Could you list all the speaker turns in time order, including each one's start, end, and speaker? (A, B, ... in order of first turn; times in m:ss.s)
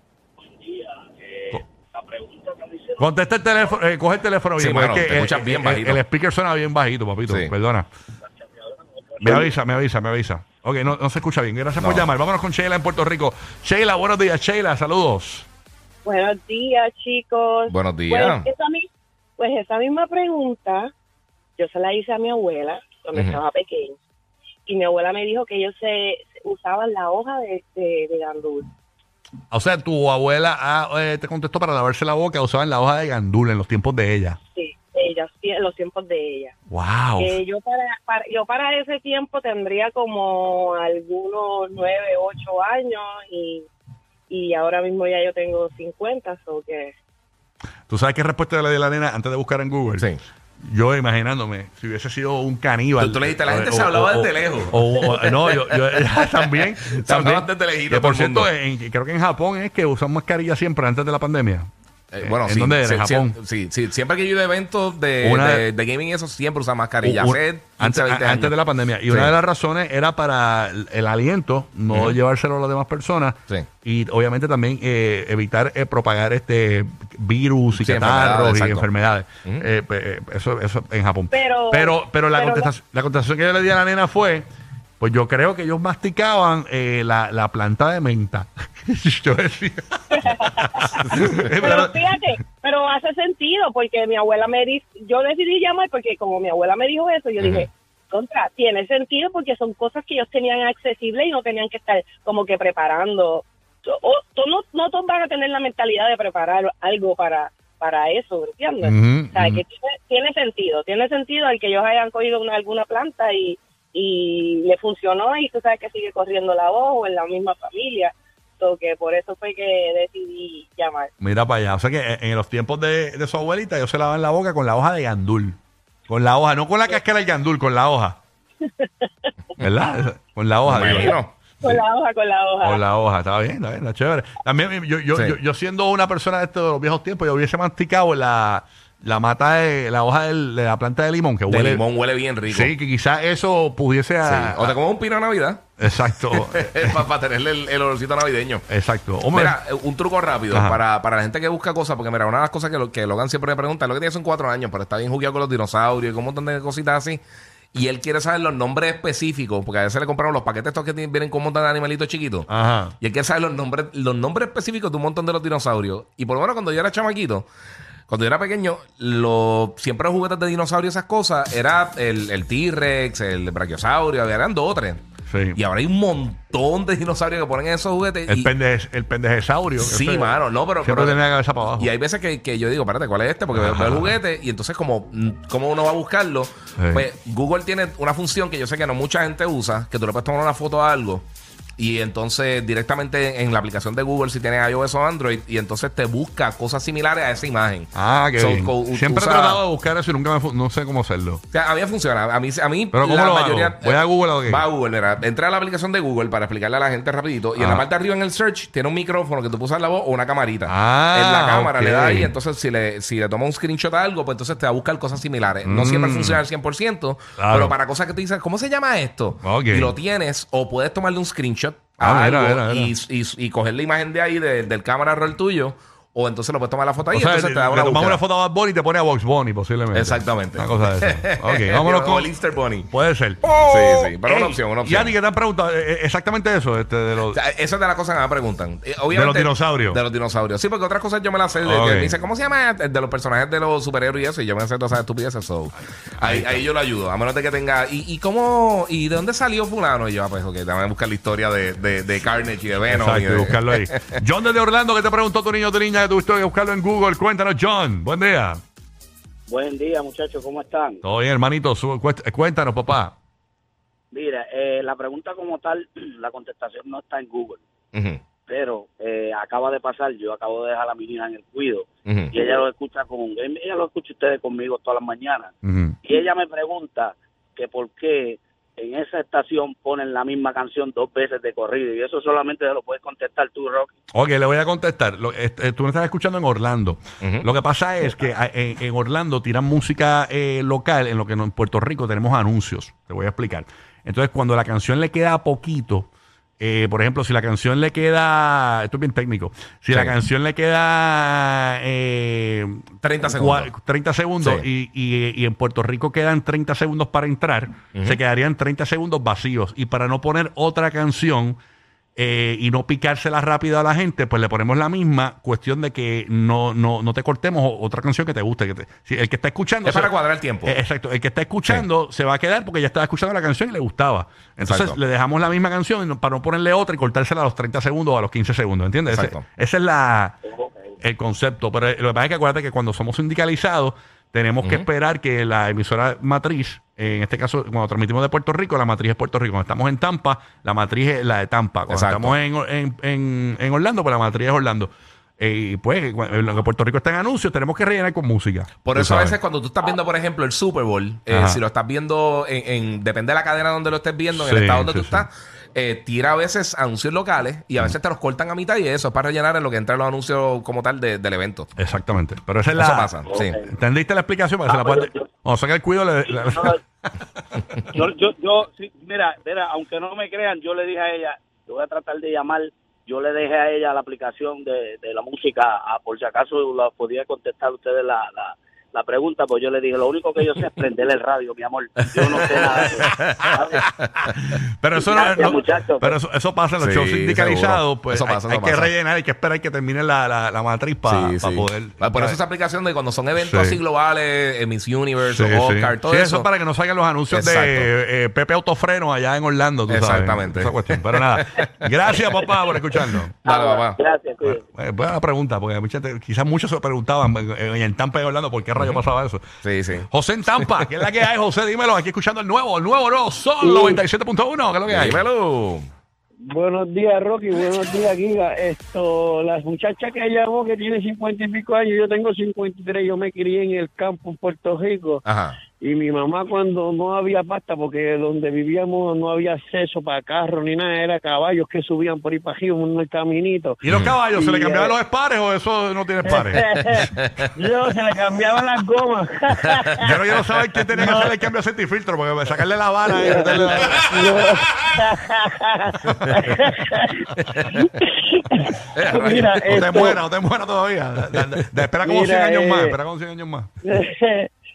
0:00.6-0:03.0 A
0:03.0-0:07.9 B
0:04.6-0:06.0 C
0:09.2-0:15.5 B
0:11.8-0:12.1 C
0:16.0-0:18.9 D
0:17.7-0:18.5 C
0:19.4-0:20.9 D
0:21.6-0:24.0 D
0:23.1-0:23.4 C
0:24.7-0:28.7 D
0:29.5-0:34.4 B
0:34.5-0:36.5 D
0:36.7-0:37.4 B
0:37.2-0:43.7 D
0:44.3-0:46.9 D
0:47.9-0:50.1 B
0:50.6-1:01.7 B
0:53.0-0:56.0 C
0:56.8-0:58.5 C
1:02.1-1:08.6 C
1:02.2-1:03.4 B
1:05.2-1:05.7 B
1:07.0-1:24.5 B
1:09.1-1:09.4 C
1:11.9-1:12.2 C
1:17.8-1:18.9 C
1:21.3-1:22.7 D
1:25.0-1:32.0 B
1:30.2-1:30.5 D
1:31.1-2:01.1 D
1:37.4-1:37.7 C
1:48.8-1:49.6 B
2:01.2-2:05.6 B
2:06.1-2:08.2 B
2:08.8-2:09.1 D
2:09.6-2:11.8 B
2:10.7-2:11.3 C
2:11.6-2:12.8 D
2:12.6-2:21.8 B
2:21.5-2:22.7 C
2:22.5-2:24.8 B
2:24.3-2:25.6 C
2:25.8-2:27.0 B
2:26.3-2:28.6 C
2:28.7-2:29.6 B
2:29.3-2:37.2 C
2:30.5-2:30.8 B
2:37.7-2:42.5 C
2:42.5-2:43.0 B
2:43.0-2:47.4 C
2:48.1-2:55.0 C
2:55.3-2:55.6 B
2:55.6-2:58.5 C
2:58.3-3:01.9 B
2:59.8-3:01.2 C
3:01.8-3:11.2 C
3:03.5-3:04.2 B
3:06.8-3:07.1 B
3:11.8-3:19.6 C
3:17.9-3:21.4 B
3:21.5-3:48.2 C
3:22.9-3:24.7 B
3:27.6-3:27.8 B
3:30.7-3:32.4 B
3:35.6-3:36.4 B
3:37.4-3:37.8 B
3:39.4-3:40.0 B
3:42.0-3:42.9 B
3:47.1-3:52.3 B
3:49.9-3:52.9 C
3:52.9-3:53.4 B
3:53.6-3:55.1 C
3:54.2-3:57.4 B
3:57.3-4:14.1 C
3:59.1-4:00.0 B
4:01.6-4:02.2 B
4:06.2-4:06.6 B
4:12.9-4:18.6 B
4:19.5-4:21.0 A
4:21.0-4:23.1 B
4:24.1-4:27.6 A
4:27.9-4:28.2 C
4:28.5-4:35.5 A
4:32.1-4:32.3 C
4:35.6-4:36.0 B
4:36.0-4:43.9 A
4:44.1-4:56.1 B
4:47.2-4:47.5 C
4:56.6-5:11.6 B
5:03.0-5:03.7 C
5:04.4-5:04.7 C
5:07.9-5:08.2 C
5:12.2-5:30.4 B
5:19.8-5:20.8 C
5:24.6-5:25.0 C
5:29.1-5:29.4 C
5:30.6-5:30.9 A
5:31.0-5:49.4 B
5:34.6-5:34.9 C
5:41.9-5:42.4 C
5:48.8-6:01.7 C
5:51.3-5:51.6 B
5:54.3-5:55.2 B
6:01.8-6:03.1 B
6:02.8-6:03.6 C
6:03.3-6:03.7 A
6:03.7-6:07.8 B
6:04.7-6:05.2 A
6:06.3-6:06.8 A
6:07.9-6:23.8 A
6:22.1-6:24.1 C
6:24.3-6:32.4 B
6:25.0-6:26.2 A
6:26.8-6:28.9 C
6:31.1-6:36.5 C
6:33.4-6:33.8 B
6:35.2-6:43.3 B
6:37.3-6:37.9 C
6:39.9-6:41.7 C
6:43.5-6:44.6 A
6:43.5-6:44.0 C
6:44.4-6:49.4 B
6:49.6-6:50.1 C
6:50.0-6:55.3 B
6:50.6-6:50.8 C
6:53.6-6:54.0 E
6:54.9-6:55.9 C
6:56.5-7:05.2 E
7:05.2-7:05.6 C
7:05.8-7:14.9 E
7:13.8-7:17.1 B
7:16.2-7:20.1 E
7:20.0-7:24.4 B
7:21.0-7:21.3 E
7:23.1-7:30.2 E
7:26.1-7:26.5 B
7:29.0-7:29.8 C
7:29.6-7:33.7 B
7:32.1-7:33.0 E
7:33.8-7:34.5 E